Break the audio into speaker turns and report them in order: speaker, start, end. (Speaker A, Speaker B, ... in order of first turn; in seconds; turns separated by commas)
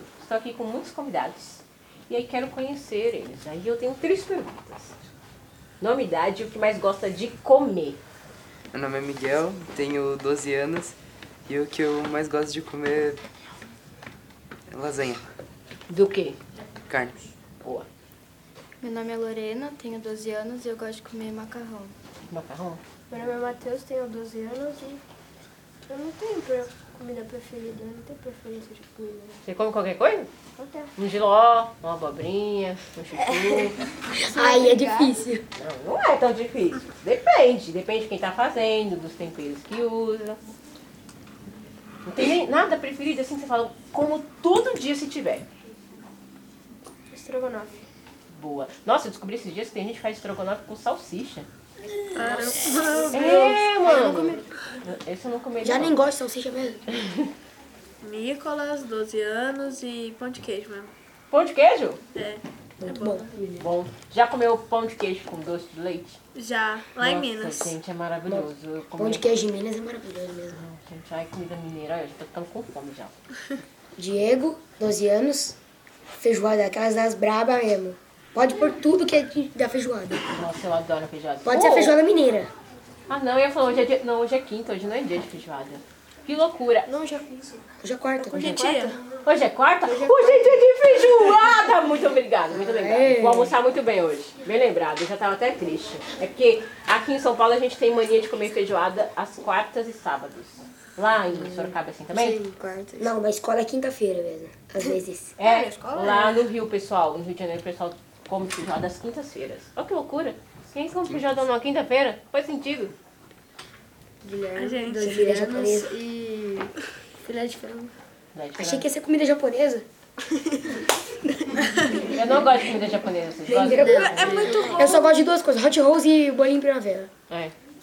Speaker A: 0.2-4.9, Speaker A: 5.8-8.0, Speaker B: 8.7-10.9, Speaker B: 11.5-13.2, Speaker B: 14.7-15.2, Speaker A: 15.9-16.4, Speaker B: 16.9-17.2, Speaker C: 18.8-21.9, Speaker A: 22.3-22.8, Speaker D: 23.1-25.0, Speaker D: 25.9-29.4, Speaker A: 29.4-30.3, Speaker D: 30.6-30.9, Speaker A: 30.9-33.8, Speaker E: 34.1-35.4, Speaker D: 34.2-35.1, Speaker A: 35.6-40.4, Speaker A: 42.0-45.5, Speaker D: 47.1-47.7, Speaker A: 48.3-51.5, Speaker F: 52.1-53.2, Speaker D: 52.8-54.5, Speaker A: 53.1-55.9, Speaker E: 55.6-56.8, Speaker F: 58.0-60.9, Speaker A: 61.3-62.0, Speaker F: 62.1-63.2, Speaker E: 62.8-63.5, Speaker A: 63.6-66.2, Speaker F: 66.3-67.7, Speaker A: 67.0-69.2, Speaker E: 68.3-70.6, Speaker A: 70.5-73.1, Speaker E: 74.0-75.6, Speaker E: 76.2-80.2, Speaker A: 80.3-82.0, Speaker E: 81.4-82.5, Speaker A: 83.1-86.9, Speaker D: 86.9-87.5, Speaker E: 87.8-88.6, Speaker D: 88.3-88.9, Speaker F: 88.4-88.9, Speaker A: 89.2-102.4, Speaker E: 92.5-93.5, Speaker D: 101.6-103.1, Speaker E: 103.0-105.3, Speaker A: 105.4-112.9, Speaker D: 105.4-106.4, Speaker D: 114.2-116.7, Speaker F: 114.5-115.0, Speaker E: 115.0-116.0, Speaker D: 117.2-117.9, Speaker A: 118.3-118.9, Speaker E: 118.6-119.8, Speaker A: 122.0-124.5, Speaker E: 123.5-127.1, Speaker D: 123.7-124.7, Speaker F: 123.8-125.1, Speaker A: 127.3-127.5